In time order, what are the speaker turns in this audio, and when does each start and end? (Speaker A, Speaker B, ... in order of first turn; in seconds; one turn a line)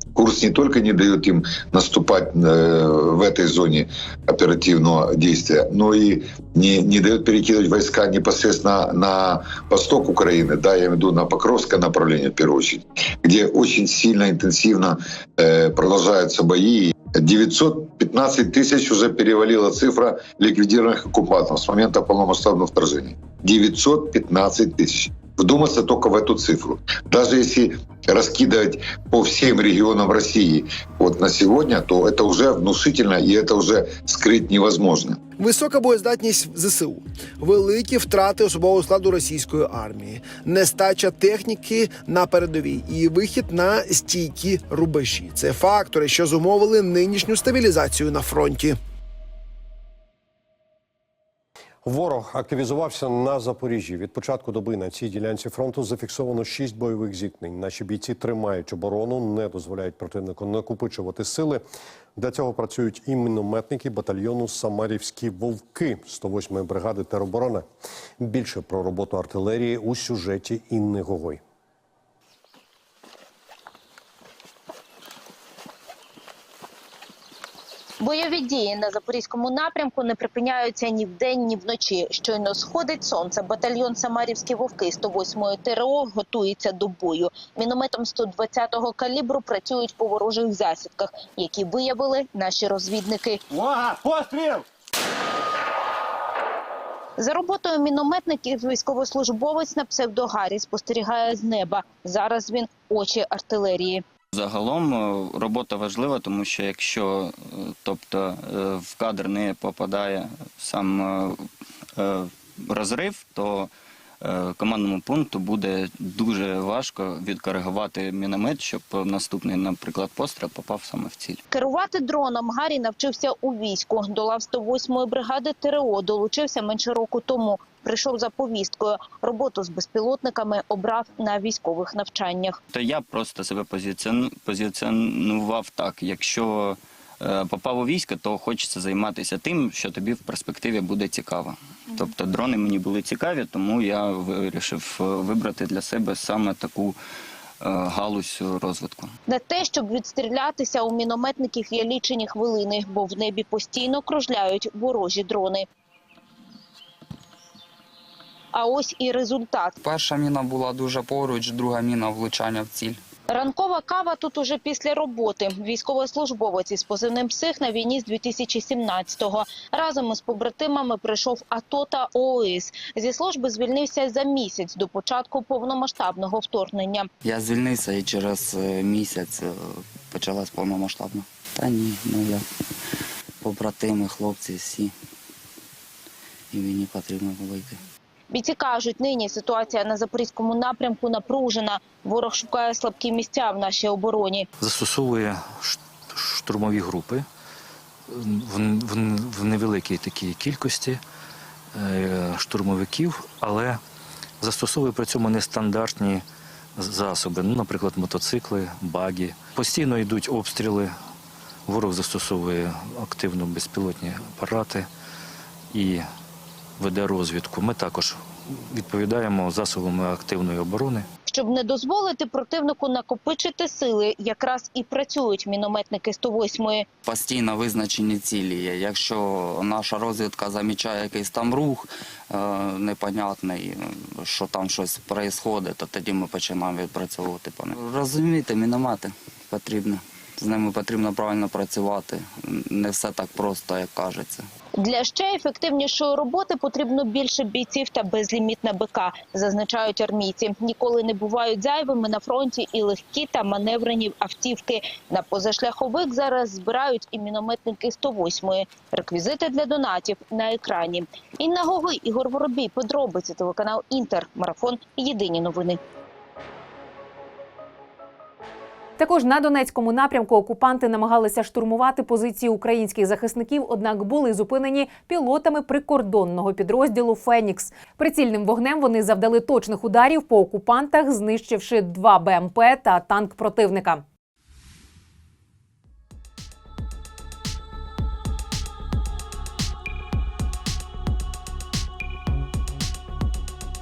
Speaker A: 0.1-35.2
Speaker B: 35.4-48.8
Speaker C: 51.8-61.6
Speaker C: 62.2-67.7
Speaker C: 68.2-71.4
Speaker D: 78.0-93.4
Speaker D: 97.2-104.0
Speaker E: 104.3-111.4
Speaker E: 112.0-121.4
Speaker D: 121.5-132.6
Speaker E: 132.7-147.0
Speaker E: 147.6-149.2
Speaker D: 149.3-155.7
Speaker D: 158.5-159.8
Speaker F: 159.8-163.0
Speaker D: 163.3-177.1
Speaker F: 177.2-182.4
Speaker F: 183.4-184.9
Speaker F: 186.5-187.8
Speaker D: 188.3-194.5
Speaker G: 194.6-197.3
Speaker G: 198.1-201.0
Speaker G: 201.7-203.8
Speaker G: 204.4-210.9
Speaker G: 211.7-214.9
Speaker G: 215.7-216.1
Speaker G: 216.8-221.1
Speaker D: 221.3-226.9
Speaker F: 227.0-244.4
Speaker D: 244.8-265.8
Speaker H: 269.0-284.0